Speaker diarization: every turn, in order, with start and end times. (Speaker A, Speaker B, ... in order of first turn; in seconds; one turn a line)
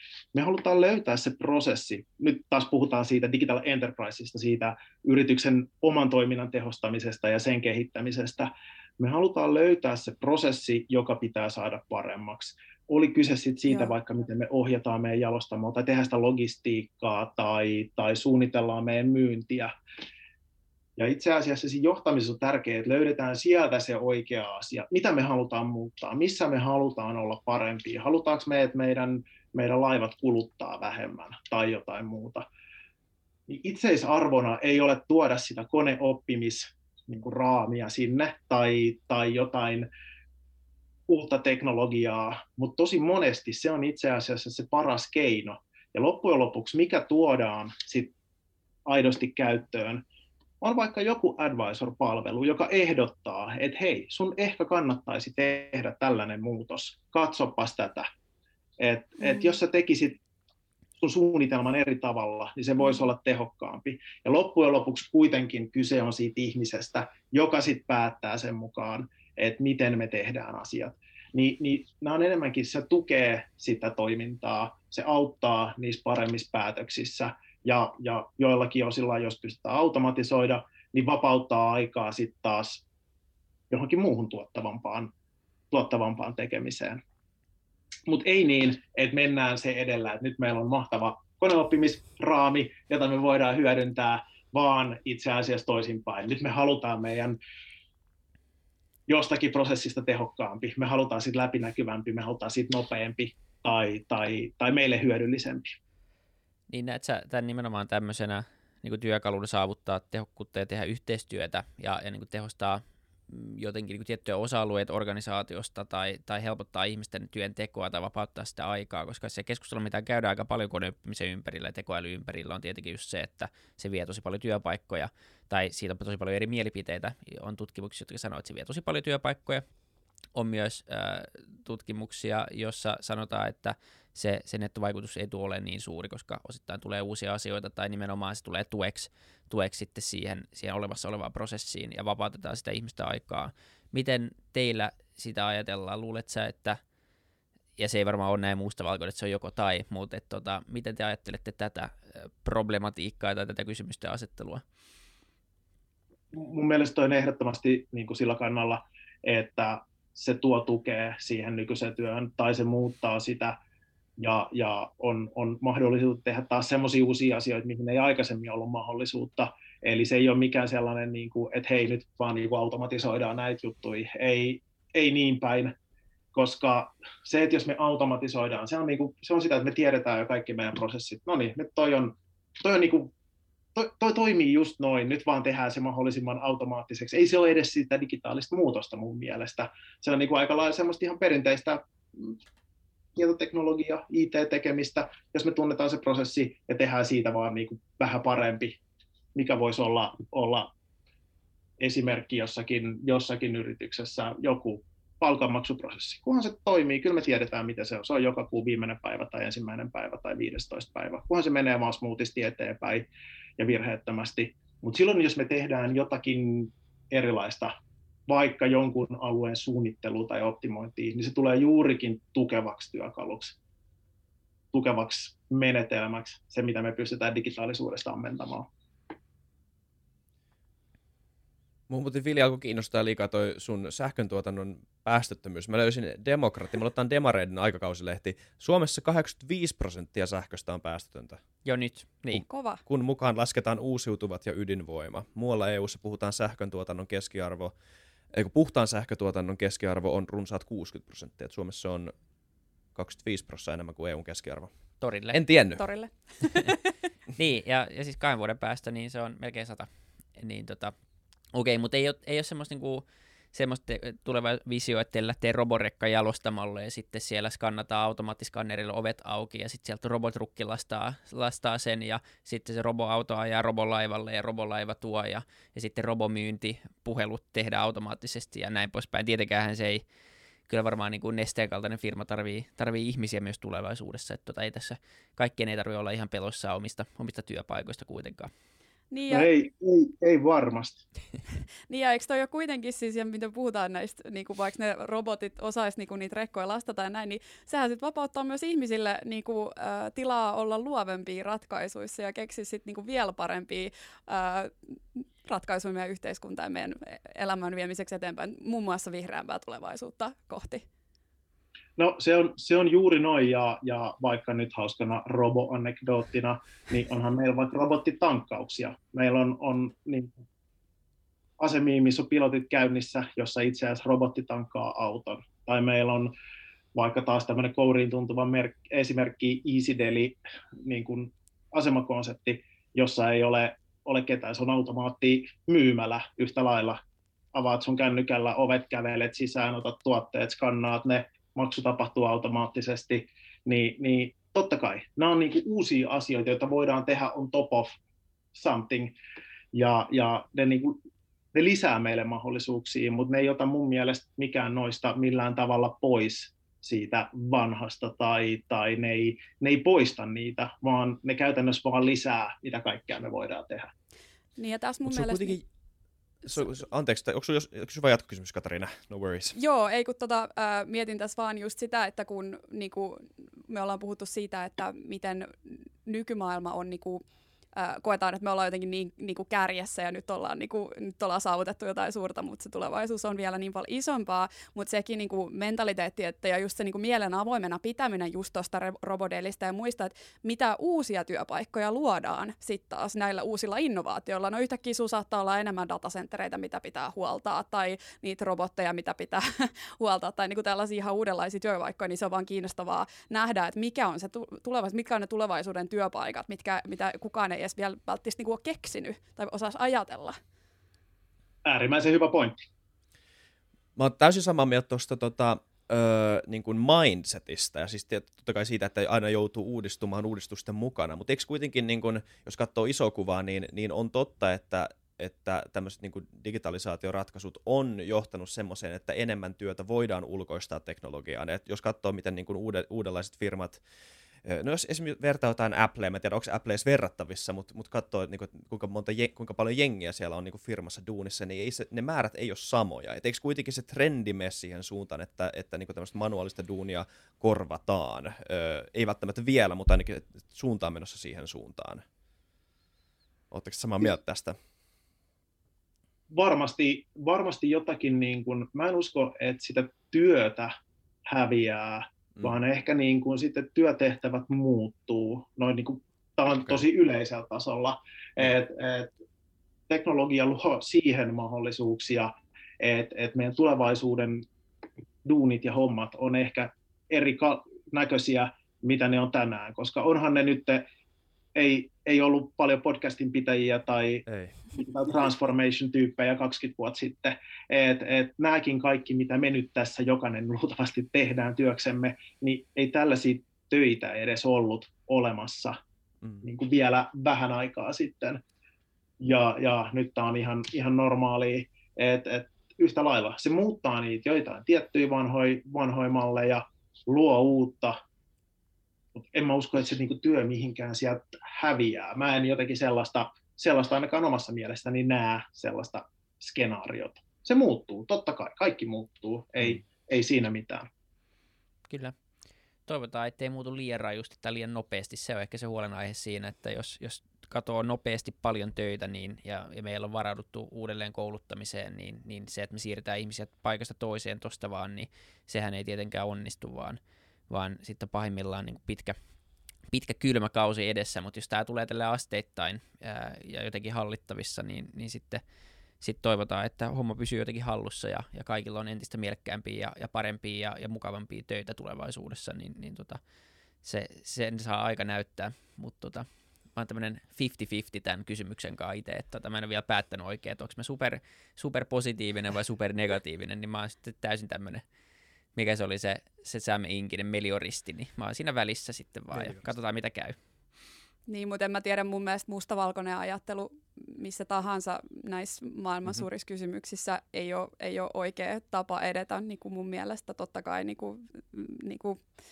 Speaker A: 0.3-19.7
Speaker B: 13.7-13.9
Speaker A: 21.0-32.5
Speaker A: 33.5-39.9
Speaker A: 41.1-48.1
Speaker A: 48.9-50.0
Speaker A: 50.6-58.1
Speaker A: 58.8-60.2
Speaker B: 59.2-59.5
Speaker A: 61.0-82.8
Speaker A: 83.7-85.1
Speaker A: 85.7-87.0
Speaker A: 88.1-97.4
Speaker A: 99.1-105.8
Speaker C: 106.7-129.6
Speaker C: 130.3-146.8
Speaker C: 147.8-154.6
Speaker A: 156.3-163.6
Speaker A: 164.2-175.7
Speaker A: 176.3-183.1
Speaker A: 183.8-192.4
Speaker A: 193.2-198.8
Speaker A: 199.3-200.7
Speaker A: 201.8-213.1
Speaker A: 213.6-217.8
Speaker A: 218.3-223.6
Speaker A: 224.7-228.7
Speaker D: 231.9-241.4
Speaker C: 241.6-242.4
Speaker D: 242.3-247.7
Speaker B: 242.4-242.8
Speaker D: 248.3-252.1
Speaker D: 252.9-254.7
Speaker C: 255.0-255.4
Speaker D: 255.3-255.8
Speaker B: 255.8-256.8
Speaker C: 257.4-260.9
Speaker C: 261.5-280.0
Speaker C: 280.7-288.5
Speaker B: 289.1-289.5
Speaker A: 289.3-291.0
Speaker B: 291.9-310.9
Speaker A: 312.0-320.4
Speaker A: 321.6-326.3
Speaker A: 326.9-337.0
Speaker A: 337.5-348.0
Speaker A: 348.5-349.1
Speaker A: 349.7-351.0
Speaker A: 351.5-363.9
Speaker B: 364.6-365.6
Speaker D: 365.1-365.6
Speaker D: 366.4-369.6
Speaker B: 369.6-377.2
Speaker B: 377.8-410.4
Speaker A: 411.6-412.6
Speaker D: 414.0-433.8
Speaker D: 434.4-452.1
Speaker D: 453.5-454.6
Speaker A: 456.3-460.7
Speaker A: 461.3-469.1
Speaker A: 469.9-474.4
Speaker A: 475.2-480.9
Speaker A: 481.6-495.8
Speaker D: 484.3-484.6
Speaker A: 496.4-498.4
Speaker A: 499.2-508.0
Speaker A: 509.1-520.9
Speaker C: 521.9-522.1
Speaker C: 522.9-539.1
Speaker C: 539.9-545.4
Speaker C: 546.0-553.2
Speaker C: 553.8-564.8
Speaker C: 565.5-570.4
Speaker D: 569.3-569.7
Speaker B: 571.3-582.2